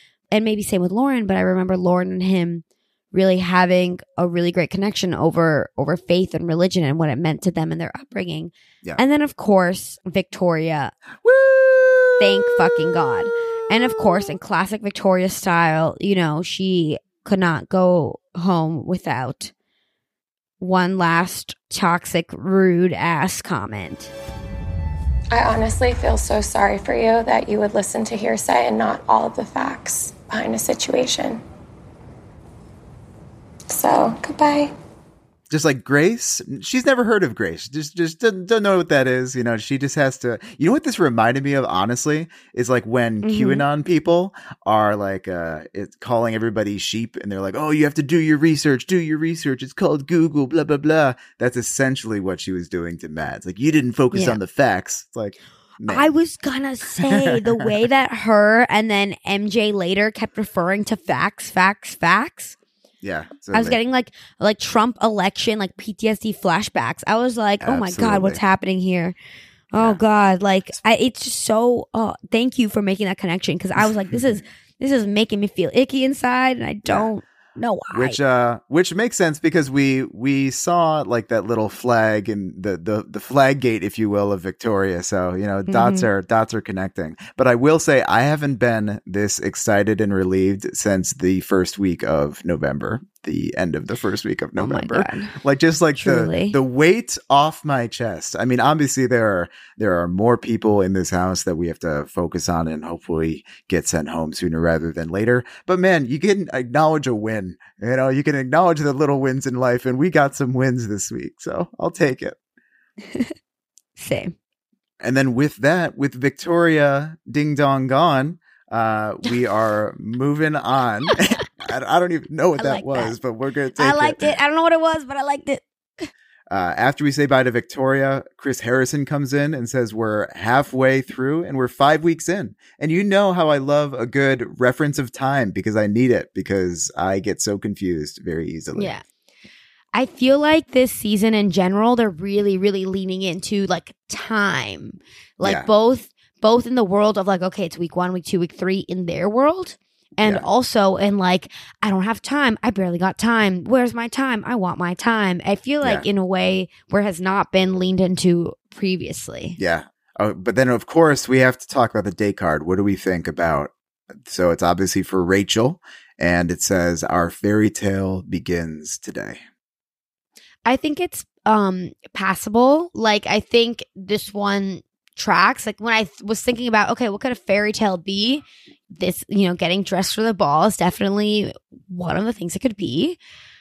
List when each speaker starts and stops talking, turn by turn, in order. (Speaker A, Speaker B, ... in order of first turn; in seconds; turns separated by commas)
Speaker A: 0.3-10.9, Speaker B: 11.2-14.3, Speaker A: 12.2-19.5, Speaker A: 20.6-24.1, Speaker C: 25.3-31.4, Speaker C: 33.7-34.7, Speaker B: 35.5-56.1, Speaker A: 43.2-43.6, Speaker A: 54.1-54.4, Speaker A: 55.9-62.6, Speaker B: 56.9-57.7, Speaker B: 63.0-63.8, Speaker A: 63.5-69.2, Speaker B: 67.6-68.4, Speaker A: 69.7-78.2, Speaker B: 69.8-70.0, Speaker B: 77.9-112.4, Speaker A: 85.7-86.1, Speaker A: 94.6-95.3, Speaker A: 96.0-96.6, Speaker A: 114.0-114.3, Speaker B: 115.0-124.3, Speaker A: 122.6-123.2, Speaker A: 123.8-126.1, Speaker B: 126.5-138.9, Speaker A: 138.8-139.0, Speaker A: 139.9-159.6, Speaker B: 145.4-145.7, Speaker B: 159.6-169.4, Speaker A: 170.7-183.2